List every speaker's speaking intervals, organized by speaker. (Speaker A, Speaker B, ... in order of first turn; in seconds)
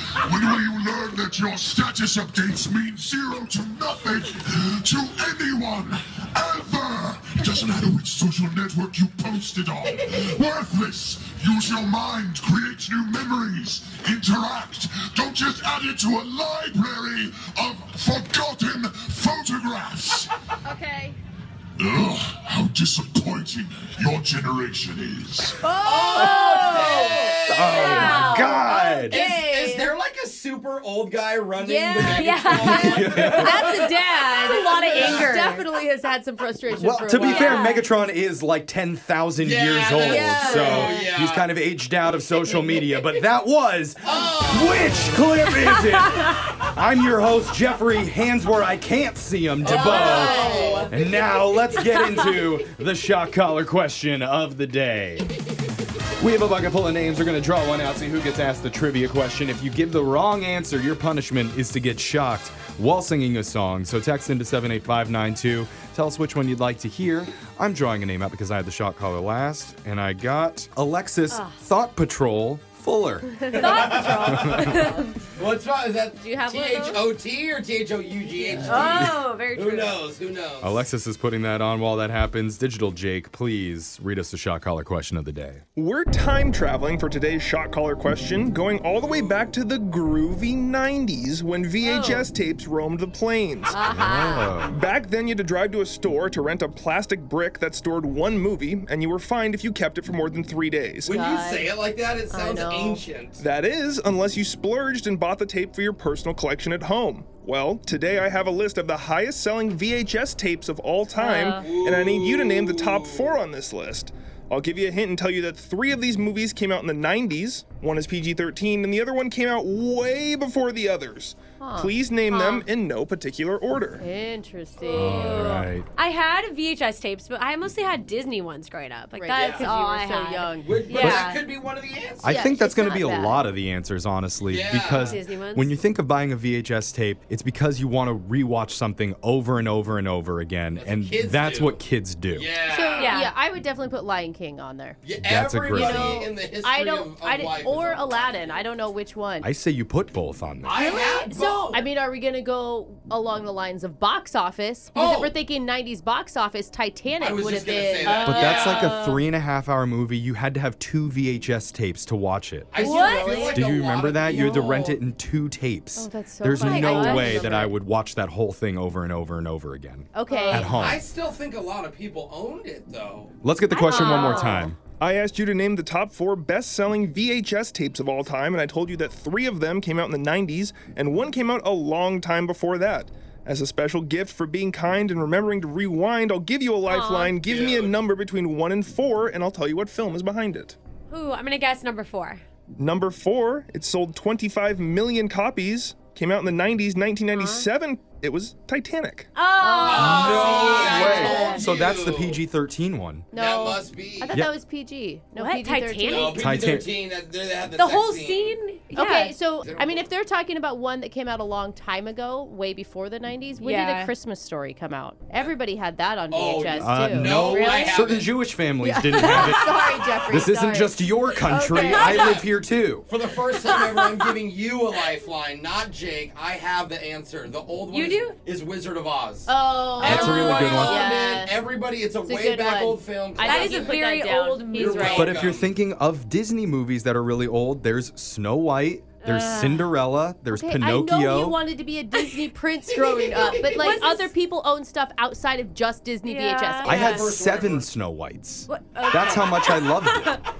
Speaker A: 0.2-20.3, 21.8-25.6
Speaker B: 20.6-21.1, 25.6-29.9, 31.6-32.2, 33.2-37.8, 40.0-41.0, 49.7-50.9, 74.6-75.1, 76.2-77.0, 78.4-78.8, 91.8-92.2, 93.7-94.5, 101.1-101.7, 102.3-103.0, 111.2-111.7, 121.6-122.7, 124.0-125.6, 129.1-131.2, 132.2-133.4, 142.7-145.0, 145.7-149.5, 151.7-158.6, 162.8-163.6, 165.9-167.7, 170.1-170.7, 173.8-174.6, 197.3-197.7, 199.6-201.5, 203.3-206.4, 208.9-217.9, 218.8-220.9, 221.7-222.4, 229.5-231.6, 232.2-235.3, 240.5-247.1
Speaker C: 25.8-28.5, 29.1-33.9, 34.9-35.2, 39.4-41.5, 44.0-45.0, 49.6-51.0, 73.5-74.7, 75.3-80.9, 101.0-103.4, 111.6-113.3, 129.3-129.7, 130.7-132.2, 134.5-135.2, 140.7-141.8, 142.3-143.1, 145.0-148.3, 150.6-151.8, 154.9-155.3, 157.2-158.9, 162.7-165.0, 170.6-173.3, 187.4-187.9, 199.8-202.4, 203.3-204.3, 206.0-208.6, 209.6-210.0, 216.3-218.3, 221.7-222.4, 223.1-234.0, 234.7-235.7, 246.9-247.8
Speaker D: 25.9-28.7, 32.0-35.6, 37.2-37.8, 40.1-41.0, 45.7-46.0, 49.7-50.9, 71.3-71.6, 73.6-75.1, 78.6-80.0, 124.8-131.4, 134.8-135.7, 142.9-143.3, 150.8-151.6, 158.0-158.9, 162.8-163.4, 166.5-167.5, 170.3-170.7, 173.7-174.7, 186.9-187.3, 191.1-192.4, 199.3-201.6, 205.3-206.4, 207.7-209.3, 213.6-214.1, 221.4-222.4, 223.7-224.2, 227.9-228.4, 230.0-230.8, 233.4-235.3, 239.2-239.9, 243.6-244.3, 246.2-247.3, 248.7-250.4
Speaker E: 27.5-29.2, 32.0-33.5, 36.8-55.3, 56.2-74.7, 80.6-85.6, 93.8-94.7, 124.9-125.8, 132.2-142.5, 145.2-146.3, 149.4-150.8, 158.2-171.0, 173.4-174.8, 199.9-203.3, 206.3-206.9, 216.7-223.1, 230.0-231.1, 235.1-241.6, 246.8-250.4
Speaker F: 85.8-93.8, 94.7-101.2, 103.4-124.0, 175.0-190.8, 192.8-199.3